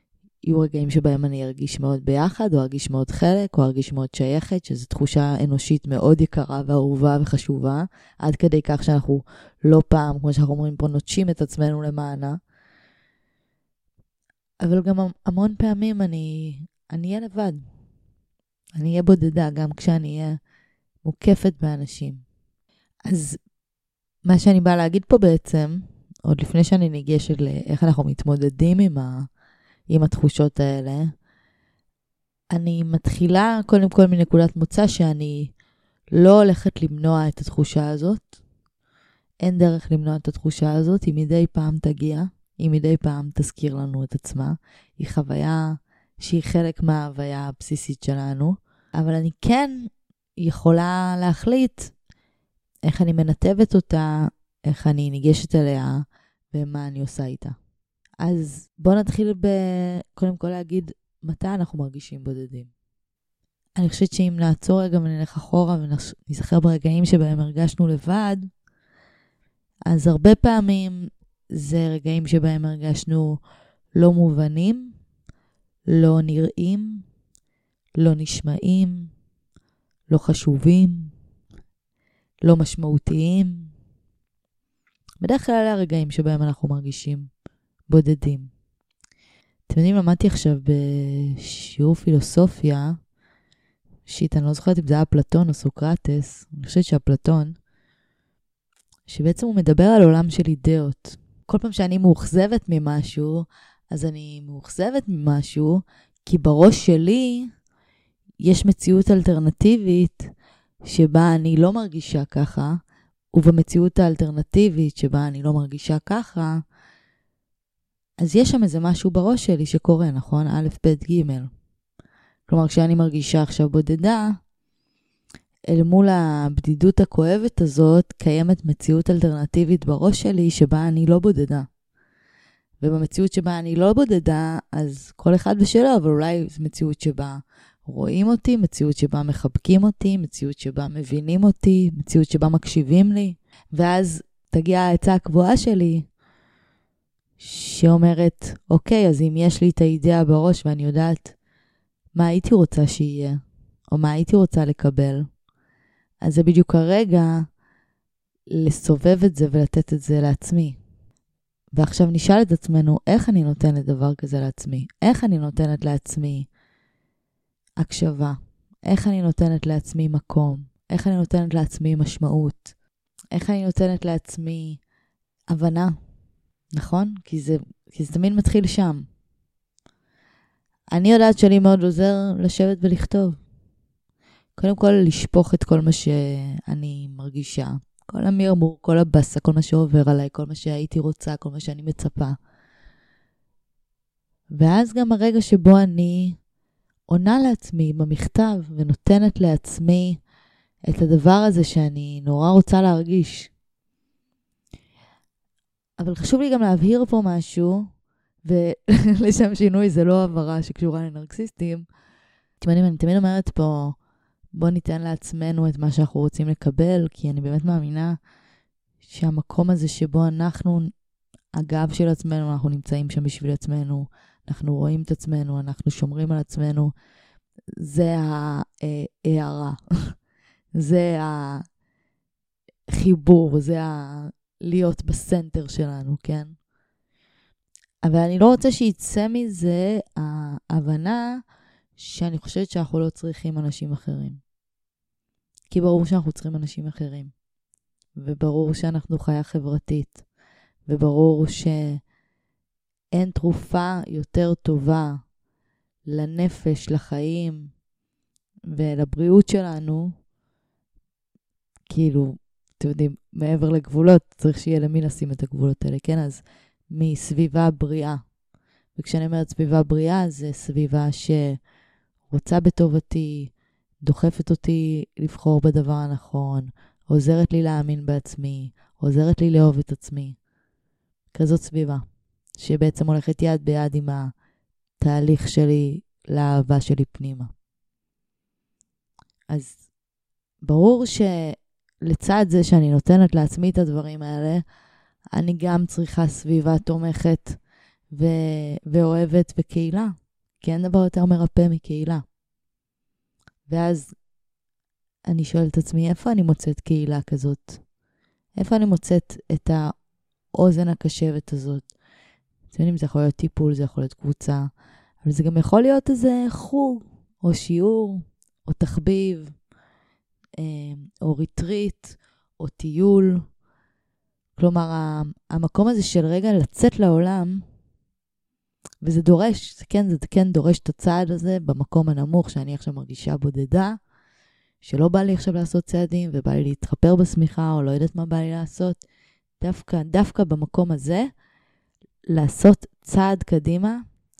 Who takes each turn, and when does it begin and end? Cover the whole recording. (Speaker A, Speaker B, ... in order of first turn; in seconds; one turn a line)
Speaker A: 0.4-12.4
Speaker A: 14.6-17.6
Speaker A: 18.8-20.4
Speaker A: 21.0-22.2
Speaker A: 23.1-23.4
Speaker A: 24.2-29.3
Speaker A: 29.9-31.1
Speaker A: 32.5-35.5
Speaker A: 36.1-38.4
Speaker A: 39.4-51.9
Speaker A: 52.9-57.6
Speaker A: 58.2-62.7
Speaker A: 63.8-68.5
Speaker A: 69.9-73.4
Speaker A: 74.0-75.0
Speaker A: 75.9-77.0
Speaker A: 78.0-79.1
Speaker A: 80.1-81.1
Speaker A: 82.4-83.7
Speaker A: 85.2-87.3
Speaker A: 87.9-88.5
Speaker A: 89.7-93.0
Speaker A: 94.1-97.6
Speaker A: 99.1-107.5
Speaker A: 108.4-110.3
Speaker A: 110.9-112.8
Speaker A: 113.3-116.6
Speaker A: 118.2-121.5
Speaker A: 122.5-124.3
Speaker A: 125.7-131.7
Speaker A: 132.8-146.1
Speaker A: 147.4-151.3
Speaker A: 152.1-153.4
Speaker A: 153.9-155.3
Speaker A: 156.2-157.4
Speaker A: 158.5-160.8
Speaker A: 161.8-166.5
Speaker A: 167.8-172.7
Speaker A: 173.3-174.8
Speaker A: 175.5-176.0
Speaker A: 176.7-179.1
Speaker A: 180.9-183.4
Speaker A: 184.6-192.4
Speaker A: 194.6-196.4
Speaker A: 197.1-200.2
Speaker A: 200.9-203.5
Speaker A: 206.0-207.9
Speaker A: 208.4-211.9
Speaker A: 212.6-214.0
Speaker A: 214.5-218.2
Speaker A: 219.0-220.9
Speaker A: 221.5-226.9
Speaker A: 227.7-230.1
Speaker A: 230.8-231.7
Speaker A: 232.9-236.6
Speaker A: 238.0-241.4
Speaker A: 242.0-244.4
Speaker A: 245.7-247.3
Speaker A: 248.2-250.2
Speaker A: 250.9-252.0
Speaker A: 253.1-255.2
Speaker A: 256.1-257.7
Speaker A: 258.7-260.2
Speaker A: 261.9-268.2
Speaker A: 269.0-271.6
Speaker A: 272.3-280.4
Speaker A: 281.3-282.0
Speaker A: 282.6-284.3
Speaker A: 285.0-287.5
Speaker A: 289.5-289.8
Speaker A: 290.6-294.6
Speaker A: 295.3-297.6
Speaker A: 298.1-302.2
Speaker A: 303.7-304.1
Speaker A: 305.3-307.8
Speaker A: 308.6-309.9
Speaker A: 310.5-311.9
Speaker A: 312.7-314.7
Speaker A: 315.3-319.5
Speaker A: 320.6-323.5
Speaker A: 324.6-327.6
Speaker A: 329.0-334.0
Speaker A: 334.8-339.0
Speaker A: 339.6-341.3
Speaker A: 342.3-344.0